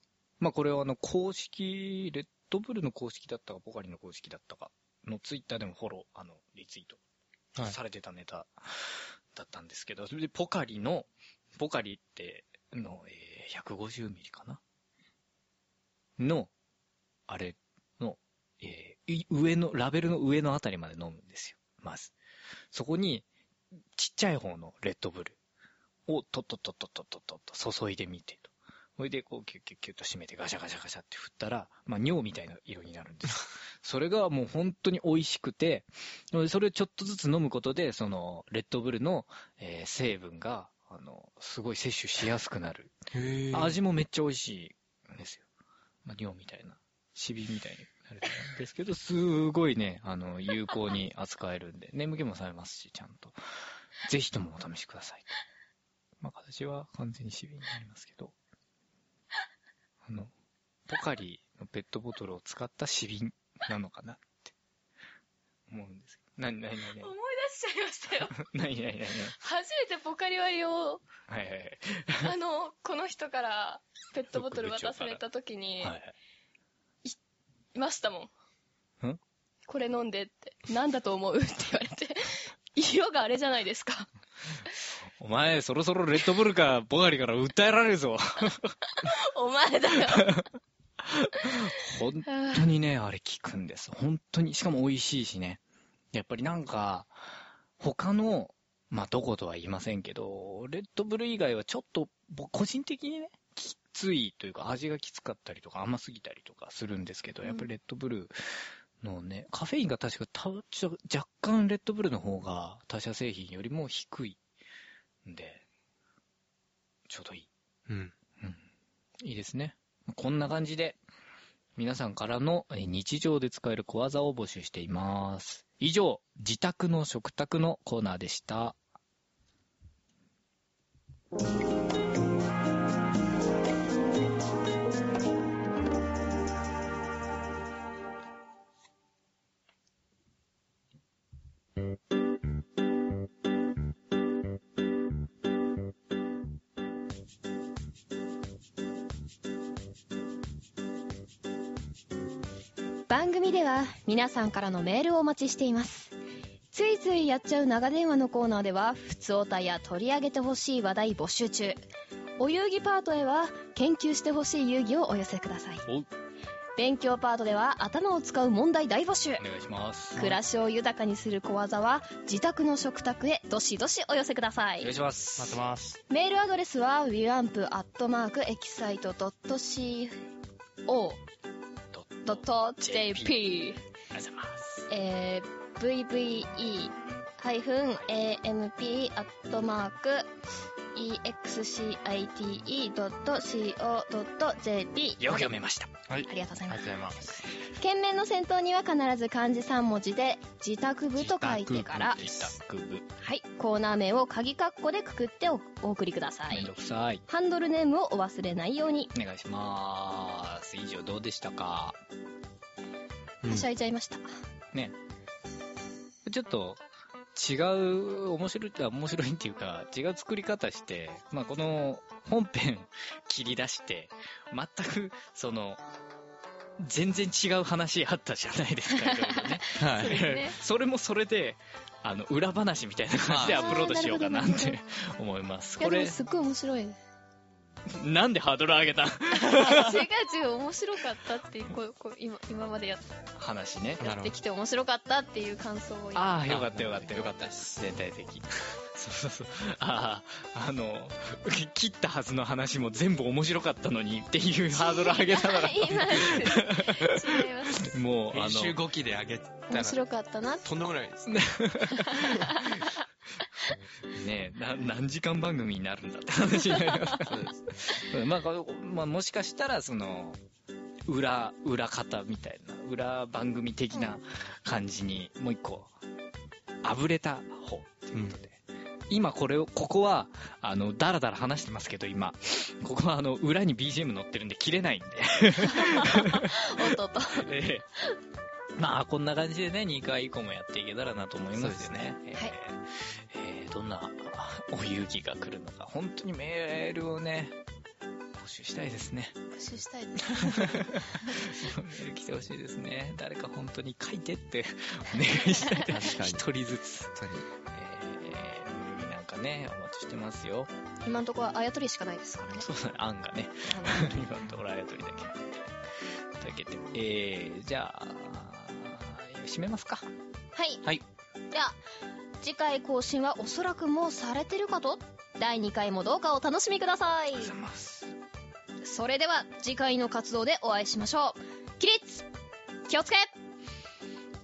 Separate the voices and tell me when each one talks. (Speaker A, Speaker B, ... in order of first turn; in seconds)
Speaker A: 0.4-7.0, 7.6-14.6, 16.2-16.5, 17.3-22.1, 22.7-23.3, 23.9-25.4, 26.1-42.9, 43.5-45.5, 46.0-53.4, 54.0-55.3, 56.2-58.4, 60.0-60.3, 60.9-64.5, 65.7-67.1, 68.3-69.3, 71.3-72.3, 74.3-75.2, 75.8-76.1, 85.2-88.8, 90.1-90.4, 91.0-95.6, 96.1-97.2, 97.8-114.4, 115.2-115.6, 117.1-117.5, 119.2-121.0, 121.8-128.8, 169.4-170.4, 174.8-175.6, 181.9-183.3, 184.1-184.9, 195.2-195.9, 201.9-203.1, 206.5-207.2, 209.1-212.0, 216.2-216.8, 217.3-225.8, 226.8-236.2, 237.9-240.0, 243.3-244.0, 246.1-258.8, 261.2-262.9, 264.1-270.4, 271.1-275.9, 276.8-287.9, 288.8-297.6, 298.4-299.4, 300.4-307.1, 307.7-310.7, 312.6-315.4, 316.4-320.1, 327.4-328.1
Speaker B: 43.1-43.8, 117.9-118.1, 175.4-176.0, 196.1-197.4, 201.2-202.5, 213.4-213.7, 229.8-230.2, 233.3-233.8, 244.0-244.3, 246.5-247.8, 258.3-260.0, 260.6-261.5, 267.2-267.6, 291.6-292.1, 305.7-306.5, 307.1-307.5
Speaker C: 67.0-68.4, 69.3-71.0, 72.2-75.9, 77.7-78.3, 79.7-84.1, 88.9-90.4, 92.3-92.7, 107.4-107.7, 153.1-156.1, 156.7-161.8, 162.4-165.8, 166.8-169.4, 170.2-174.9, 176.1-180.2, 180.9-181.2, 182.2-183.8, 184.9-190.3, 190.9-195.5, 196.2-202.2, 203.2-206.7, 207.3-209.1, 213.4-214.2, 228.9-230.6, 233.4-234.8, 235.8-237.0, 239.4-243.1, 244.0-246.4, 254.7-257.9, 259.7-260.6, 261.9-262.9, 285.6-287.5, 299.5-301.6, 311.0-312.6, 313.7-314.3, 320.5-320.8, 321.5-321.8, 322.4-327.5, 328.8-332.2, 332.9-333.3